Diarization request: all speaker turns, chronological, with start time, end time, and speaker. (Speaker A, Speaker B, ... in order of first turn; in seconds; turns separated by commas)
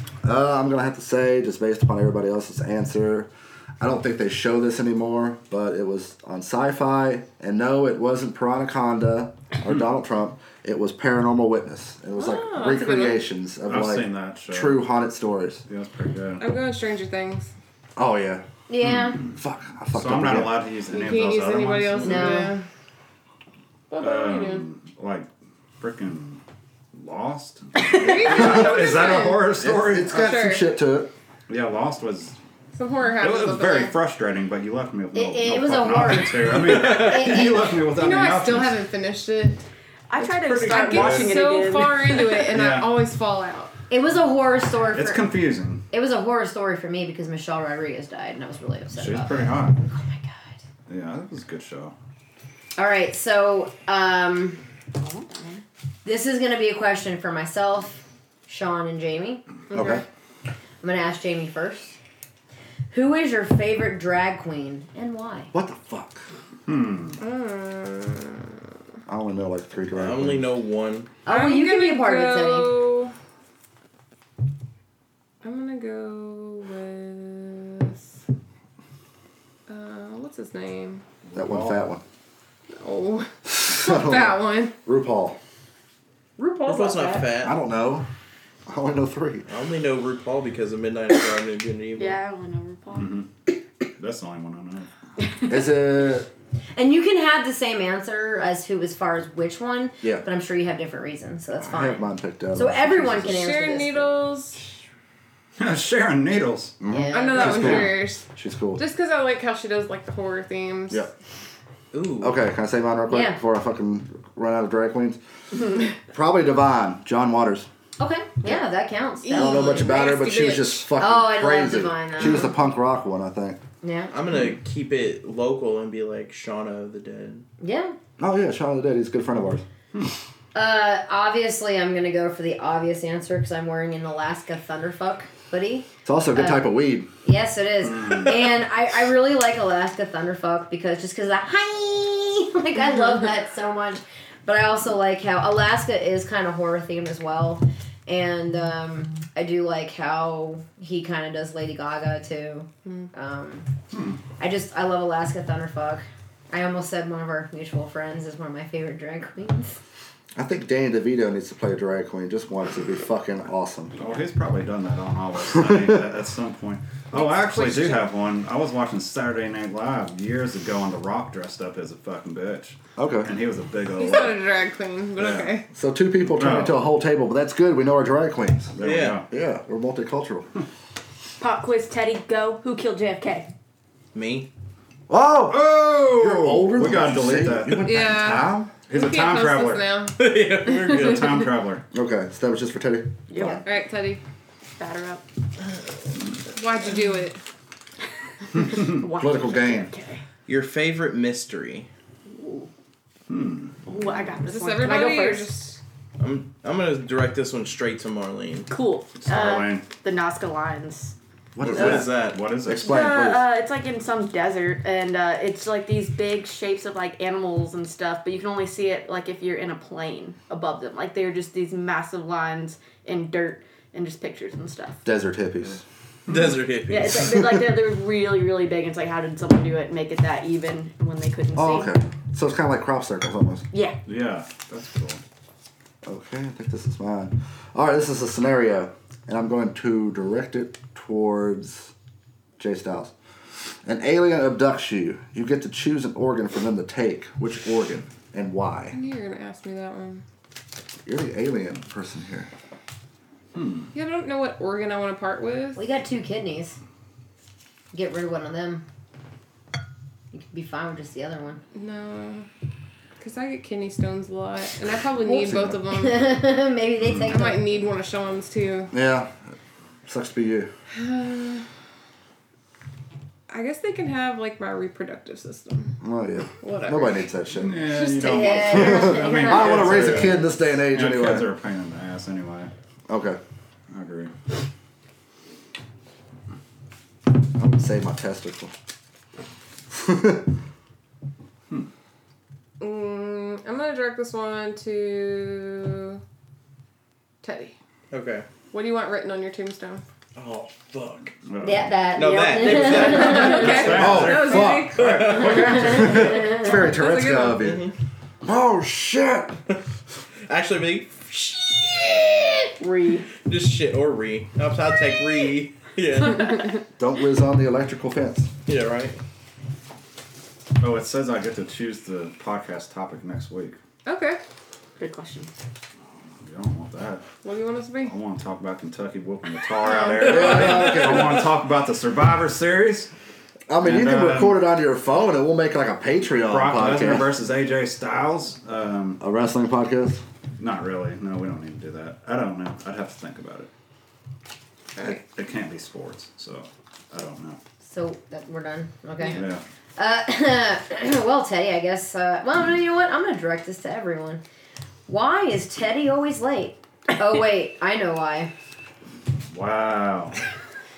Speaker A: 0.2-3.3, Speaker A: 3.8-15.6, Speaker B: 12.2-13.2, Speaker C: 13.7-14.9, Speaker C: 15.7-16.5, Speaker B: 16.4-17.5, Speaker A: 18.0-18.4, Speaker D: 18.7-19.2, Speaker C: 18.8-19.4, Speaker A: 19.2-20.6, Speaker C: 19.9-22.4, Speaker B: 20.9-22.6, Speaker D: 22.0-22.6, Speaker B: 23.9-24.6, Speaker C: 24.0-25.3, Speaker C: 25.8-26.4, Speaker C: 26.9-30.4, Speaker B: 27.8-29.5, Speaker A: 28.4-28.7, Speaker A: 29.5-31.1, Speaker B: 30.1-30.7, Speaker C: 31.5-32.4, Speaker B: 32.7-33.9, Speaker C: 33.2-38.8, Speaker D: 35.1-37.8, Speaker E: 36.7-37.1, Speaker B: 37.9-39.6, Speaker F: 40.1-42.5, Speaker E: 40.4-41.0, Speaker B: 40.7-43.7, Speaker C: 40.9-41.3, Speaker C: 42.5-43.0, Speaker D: 43.9-45.3, Speaker C: 44.9-45.8, Speaker D: 45.9-50.5, Speaker C: 48.9-49.8, Speaker C: 50.9-51.9, Speaker D: 52.8-54.6, Speaker F: 55.0-55.6, Speaker D: 56.0-59.4, Speaker B: 59.7-60.0, Speaker A: 59.7-60.0, Speaker D: 60.8-62.0, Speaker D: 62.9-65.5, Speaker A: 65.5-66.2, Speaker C: 66.7-67.2, Speaker B: 67.2-68.5, Speaker A: 69.1-70.5, Speaker E: 69.9-71.1, Speaker D: 71.2-72.9, Speaker B: 71.3-73.1, Speaker B: 75.4-78.0, Speaker B: 79.7-81.0, Speaker C: 81.2-81.8, Speaker A: 81.3-82.0, Speaker B: 82.7-84.7, Speaker A: 83.7-85.4, Speaker B: 86.4-87.3, Speaker E: 86.6-87.5, Speaker A: 87.4-88.1, Speaker A: 88.7-89.5, Speaker E: 89.5-92.2, Speaker F: 92.0-93.2, Speaker C: 93.0-93.2, Speaker C: 93.8-94.9, Speaker A: 95.5-96.3, Speaker D: 96.8-104.2, Speaker A: 101.6-103.4, Speaker B: 103.2-104.6, Speaker C: 105.6-106.8, Speaker A: 106.8-108.8, Speaker D: 106.9-107.8, Speaker B: 107.1-108.2, Speaker B: 108.8-111.0, Speaker E: 111.9-112.4, Speaker A: 112.2-115.2, Speaker D: 113.1-113.4, Speaker A: 116.1-117.7, Speaker D: 118.0-119.9, Speaker B: 119.2-120.8, Speaker A: 119.3-123.6, Speaker D: 121.0-122.5, Speaker D: 123.8-124.1, Speaker E: 124.1-127.5, Speaker D: 127.6-127.9, Speaker A: 128.2-129.6, Speaker D: 130.5-153.7, Speaker A: 136.0-137.1, Speaker C: 137.9-138.3, Speaker C: 153.9-154.2, Speaker D: 154.4-159.8, Speaker A: 160.3-163.9, Speaker C: 164.0-174.4, Speaker A: 165.5-166.0, Speaker B: 167.1-168.1, Speaker A: 173.0-173.3, Speaker B: 174.0-175.7, Speaker C: 175.2-175.5, Speaker A: 175.7-180.5, Speaker C: 176.3-176.8, Speaker C: 178.8-179.2, Speaker E: 178.8-179.2, Speaker F: 181.4-183.5, Speaker E: 184.1-184.5, Speaker A: 185.1-188.7, Speaker C: 185.5-190.0, Speaker B: 187.8-190.2, Speaker E: 190.2-191.4, Speaker C: 190.8-191.8, Speaker A: 191.9-193.6, Speaker F: 193.3-193.6, Speaker B: 193.6-194.2, Speaker F: 194.8-195.2, Speaker B: 196.4-197.4, Speaker F: 198.5-200.2, Speaker A: 199.0-199.9, Speaker E: 200.4-201.9, Speaker F: 202.3-202.7, Speaker C: 203.3-203.8, Speaker F: 203.8-205.5, Speaker B: 204.4-205.8, Speaker E: 206.2-208.7, Speaker F: 208.7-211.1, Speaker C: 209.2-209.9, Speaker A: 211.6-213.4, Speaker E: 211.6-212.4, Speaker C: 211.8-213.1, Speaker F: 212.7-225.0, Speaker A: 225.0-225.8, Speaker E: 226.3-227.7, Speaker F: 226.9-231.9, Speaker A: 231.5-233.6, Speaker F: 233.7-234.0, Speaker C: 234.1-235.2, Speaker A: 236.0-241.9, Speaker A: 242.6-243.1, Speaker A: 243.8-248.9, Speaker B: 248.9-250.2, Speaker A: 251.1-252.5, Speaker C: 253.5-253.9, Speaker B: 253.9-255.8, Speaker D: 255.7-256.8, Speaker D: 257.9-258.8, Speaker D: 260.3-261.6, Speaker B: 261.7-262.5, Speaker B: 263.2-266.3, Speaker D: 265.2-267.8, Speaker A: 265.4-265.8, Speaker B: 267.2-268.9, Speaker A: 268.9-269.5, Speaker A: 270.1-270.7, Speaker B: 270.9-271.6, Speaker B: 273.5-275.9, Speaker A: 276.0-277.8, Speaker B: 276.6-277.2, Speaker C: 277.5-282.7, Speaker D: 278.0-280.2, Speaker A: 278.6-281.5, Speaker A: 283.1-283.4, Speaker C: 283.9-284.3, Speaker A: 287.5-288.7, Speaker A: 289.9-290.5, Speaker B: 292.8-296.2, Speaker B: 297.4-297.7, Speaker E: 298.1-298.5, Speaker B: 298.7-300.0, Speaker E: 300.4-301.3, Speaker C: 301.4-301.9, Speaker D: 301.6-303.9, Speaker E: 302.1-304.4, Speaker F: 302.6-303.2, Speaker B: 303.1-305.3, Speaker C: 303.5-306.5, Speaker A: 303.9-307.9, Speaker E: 304.9-306.3, Speaker B: 306.4-307.6, Speaker E: 307.6-307.9, Speaker A: 308.4-309.6, Speaker E: 310.5-312.8, Speaker F: 312.8-313.3, Speaker E: 313.4-316.8, Speaker A: 317.0-318.5, Speaker E: 318.6-319.2, Speaker C: 320.8-323.8, Speaker B: 324.0-324.4, Speaker F: 325.0-325.5, Speaker C: 326.4-327.2, Speaker B: 327.4-328.1, Speaker C: 328.0-333.1, Speaker B: 329.8-330.9, Speaker A: 330.2-331.5, Speaker A: 333.7-337.3, Speaker C: 333.8-334.6, Speaker C: 336.4-339.2, Speaker A: 339.2-340.2, Speaker C: 340.6-343.7, Speaker C: 345.0-347.6, Speaker D: 347.8-354.4, Speaker C: 349.4-349.6, Speaker D: 355.1-358.5, Speaker C: 359.5-360.4